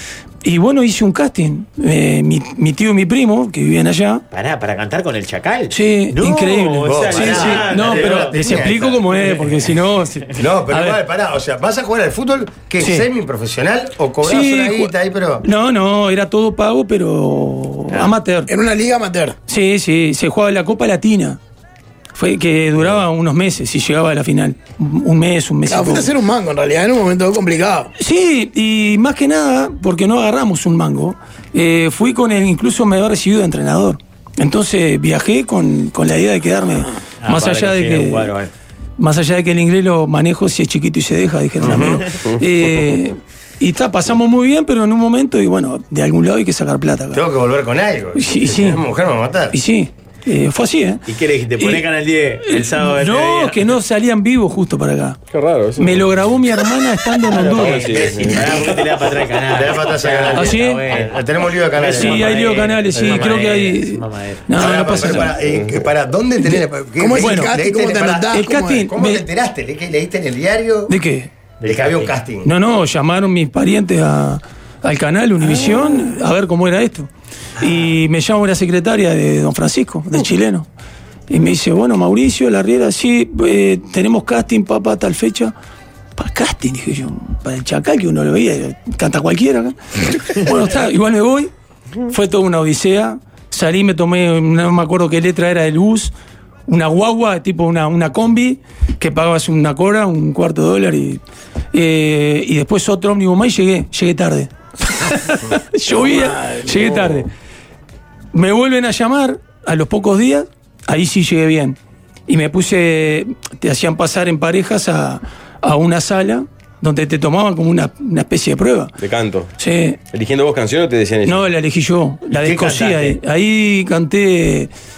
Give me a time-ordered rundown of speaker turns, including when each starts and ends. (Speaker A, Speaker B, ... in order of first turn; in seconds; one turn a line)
Speaker A: 0.4-4.2
Speaker B: 4.3-9.6
Speaker A: 5.7-11.0
Speaker C: 6.8-9.0
Speaker C: 10.3-15.4
Speaker A: 12.8-13.1
Speaker A: 14.2-18.5
Speaker D: 18.5-19.4
Speaker A: 19.5-21.4
Speaker A: 22.1-26.1
Speaker D: 25.6-27.9
Speaker A: 28.0-38.3
Speaker B: 37.2-38.5
Speaker A: 39.0-47.2
Speaker C: 41.6-42.0
Speaker C: 47.1-49.5
Speaker A: 48.1-48.9
Speaker A: 49.5-51.0
Speaker B: 51.0-53.6
Speaker A: 51.5-51.9
Speaker A: 52.4-55.2
Speaker E: 55.3-56.4
Speaker A: 55.8-58.0
Speaker B: 57.3-65.2
Speaker E: 57.5-58.7
Speaker C: 59.5-62.4
Speaker A: 60.3-60.8
Speaker A: 61.8-65.4
Speaker C: 64.5-70.9
Speaker E: 65.5-65.8
Speaker D: 67.0-68.9
Speaker A: 67.1-67.6
Speaker A: 68.3-69.2
Speaker A: 70.9-71.3
Speaker B: 71.6-72.1
Speaker C: 71.6-72.5
Speaker A: 72.4-80.7
Speaker B: 77.6-77.9
Speaker A: 81.3-85.5
Speaker A: 86.2-91.5
Speaker A: 92.1-96.1
Speaker A: 96.7-101.2
Speaker A: 101.7-107.3
Speaker D: 105.9-107.0
Speaker A: 108.3-118.9
Speaker E: 119.0-119.5
Speaker A: 119.6-120.0
Speaker E: 120.1-121.5
Speaker A: 121.2-124.7
Speaker B: 122.4-123.2